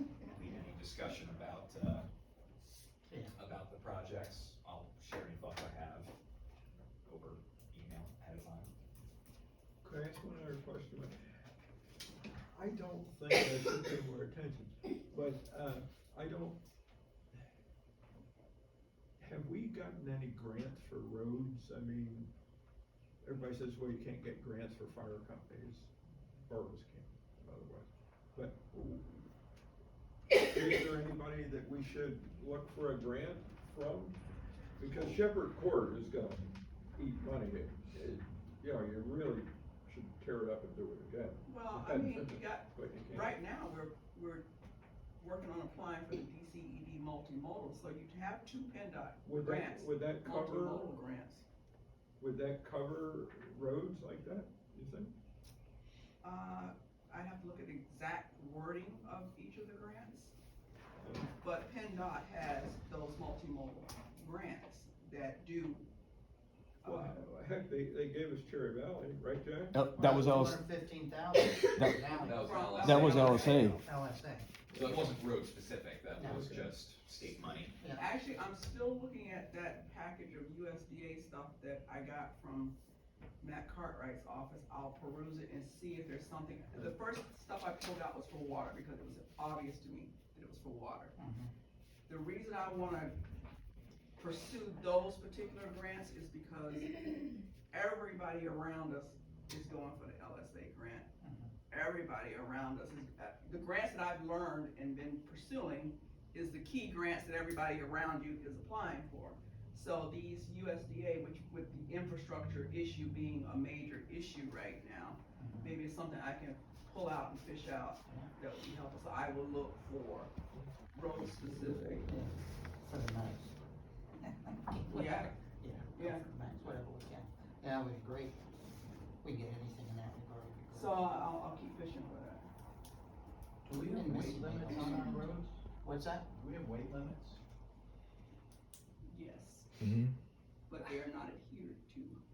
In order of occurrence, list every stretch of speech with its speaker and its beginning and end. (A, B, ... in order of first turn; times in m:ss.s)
0:00.2-0:02.1 A
0:03.1-0:03.3 B
0:03.4-0:06.1 A
0:07.0-0:08.7 A
0:09.8-0:11.2 C
0:12.5-0:16.6 C
0:19.2-0:22.3 C
0:23.2-0:25.9 C
0:26.5-0:29.3 C
0:30.4-0:34.2 C
0:34.8-0:43.3 C
0:41.4-0:44.5 D
0:45.2-0:51.4 D
0:49.2-0:50.9 C
0:52.2-0:55.1 C
0:56.2-1:00.4 D
1:01.0-1:01.3 C
1:01.3-1:05.9 D
1:06.8-1:07.3 D
1:06.8-1:09.9 C
1:09.7-1:10.6 E
1:09.9-1:12.8 B
1:11.4-1:12.1 E
1:12.1-1:13.8 A
1:12.3-1:13.8 D
1:12.8-1:13.8 E
1:13.8-1:14.5 B
1:14.7-1:15.2 C
1:14.8-1:17.8 A
1:16.2-1:16.5 B
1:16.2-1:16.8 C
1:17.4-1:17.7 C
1:17.8-1:18.1 B
1:18.0-1:22.8 D
1:23.4-1:31.1 D
1:31.2-1:31.5 B
1:32.1-1:33.1 D
1:34.2-1:41.1 D
1:41.2-1:41.5 B
1:41.7-2:00.3 D
1:55.4-1:55.8 B
1:58.1-1:58.3 B
2:00.9-2:02.1 D
2:01.4-2:02.0 C
2:02.1-2:03.5 B
2:04.7-2:08.4 B
2:04.9-2:05.4 D
2:05.9-2:06.8 D
2:09.2-2:11.1 B
2:10.7-2:12.5 D
2:13.7-2:15.6 F
2:13.7-2:16.3 B
2:14.7-2:15.3 D
2:16.3-2:17.4 F
2:19.1-2:19.7 D
2:19.8-2:20.1 E
2:20.7-2:22.2 D